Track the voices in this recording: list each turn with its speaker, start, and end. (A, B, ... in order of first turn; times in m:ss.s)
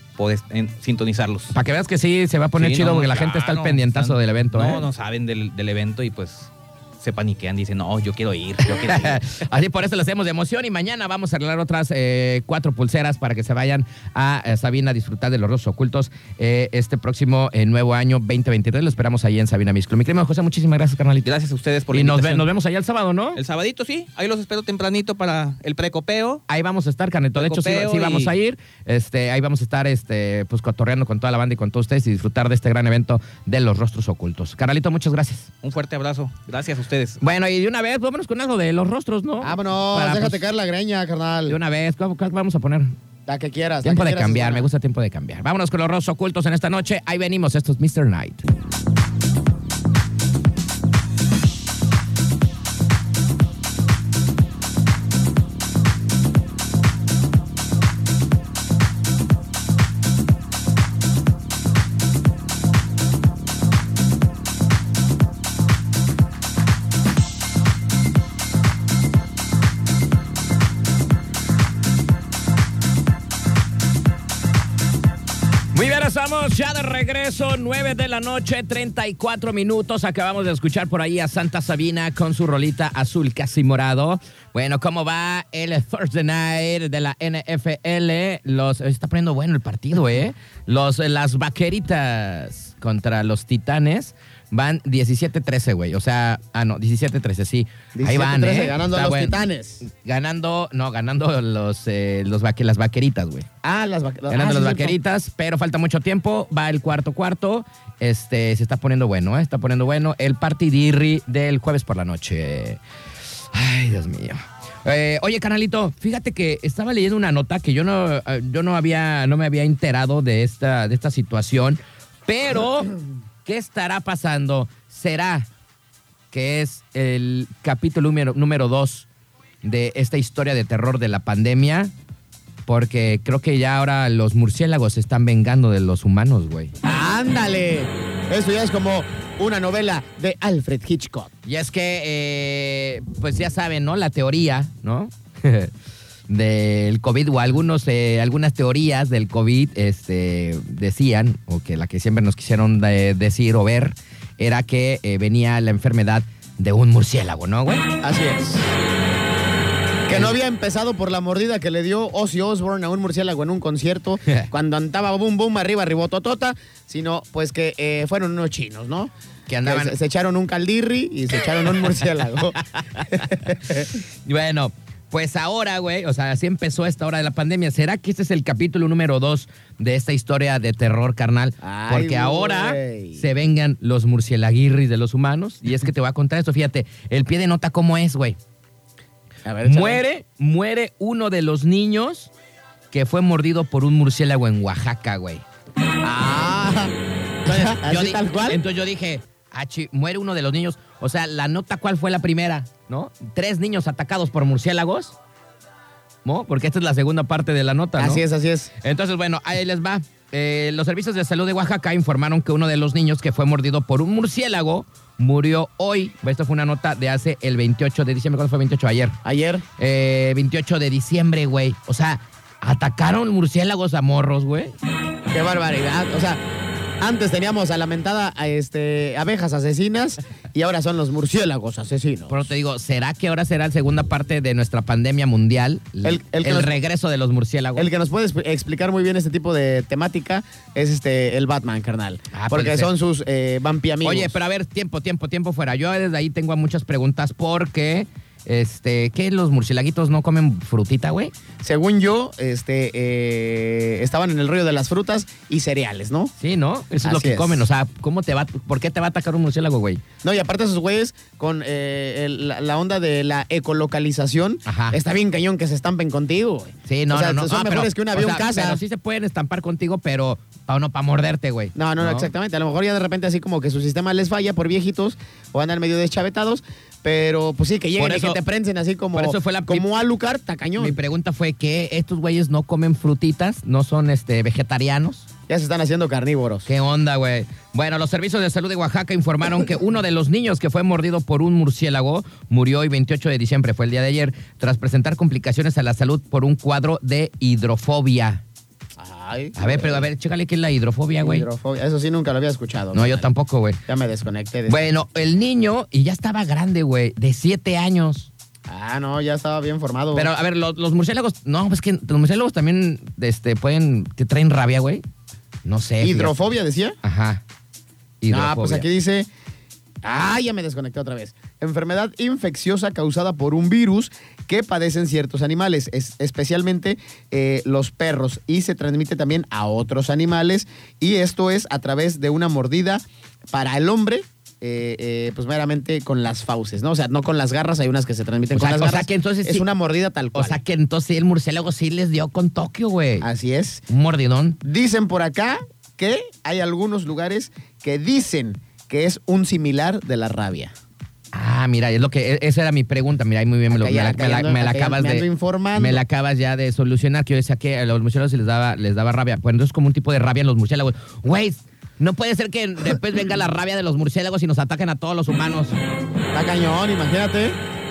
0:00.2-0:01.5 A
0:01.5-0:04.8 B
0:02.6-0:09.2 A
0:08.8-0:21.3 B
0:21.2-0:22.5 A
0:21.9-0:23.4 B
0:23.4-0:26.4 A
0:26.5-0:35.5 B
0:27.4-0:28.3 A
0:35.6-0:37.2 A
0:37.2-0:40.4 B
0:39.4-0:41.6 C
0:41.5-0:42.9 B
0:43.3-0:44.7 C
0:43.8-0:48.4 B
1:15.7-1:43.5 B
1:37.9-1:39.8 C
1:43.6-1:45.0 C
1:44.3-1:52.8 B
1:53.5-2:02.9 B
2:03.4-2:05.5 B
2:06.3-2:09.1 B
2:09.6-2:11.9 B
2:12.7-2:16.7 B
2:16.8-2:21.3 C
2:21.4-2:25.7 B
2:26.3-2:37.9 B
2:38.0-2:38.7 C
2:40.0-2:49.1 C
2:40.1-2:40.3 B
2:49.5-2:50.0 B
2:49.6-2:53.9 C
2:53.0-2:53.3 B
2:54.0-3:08.4 B
3:01.6-3:03.2 C
3:09.4-3:10.0 C
3:09.6-3:12.3 B
3:12.9-3:15.4 B
3:16.0-3:16.9 C
3:17.4-3:18.6 C
3:17.4-3:25.1 B
3:26.2-3:28.2 B
3:28.0-3:28.7 C
3:28.8-3:39.2 B
3:39.2-3:39.6 C
3:39.8-3:44.8 B
3:45.3-3:46.4 C
3:47.0-3:52.5 C
3:52.3-3:57.9 B
3:56.0-3:56.7 C
3:57.8-4:04.4 C
4:02.3-4:02.9 B
4:04.0-4:11.3 B
4:11.6-4:16.3 C
4:16.4-4:20.0 B
4:17.0-4:17.6 C
4:20.2-4:28.8 C
4:24.6-4:25.0 B
4:26.9-4:32.3 B
4:31.7-4:41.0 C
4:38.0-4:38.4 B
4:39.1-4:39.9 B
4:40.8-4:45.3 B
4:45.5-4:46.7 C
4:46.6-4:58.4 B
4:59.0-5:00.1 C
4:59.6-5:01.4 B
5:01.2-5:03.3 C
5:02.9-5:03.8 B
5:03.9-5:04.8 C
5:04.7-5:08.3 B
5:08.7-5:10.3 C
5:10.1-5:15.0 B
5:15.6-5:16.3 B
5:16.0-5:17.0 C
5:17.0-5:17.4 B
5:18.2-5:18.8 B
5:18.3-5:19.3 C
5:20.0-5:40.6 C
5:38.5-5:39.6 B
5:40.3-5:43.2 B
5:43.2-5:43.8 C
5:43.9-5:44.6 B
5:44.6-5:50.7 C
5:51.3-6:05.8 B
5:53.7-5:56.0 C
6:06.3-6:07.6 C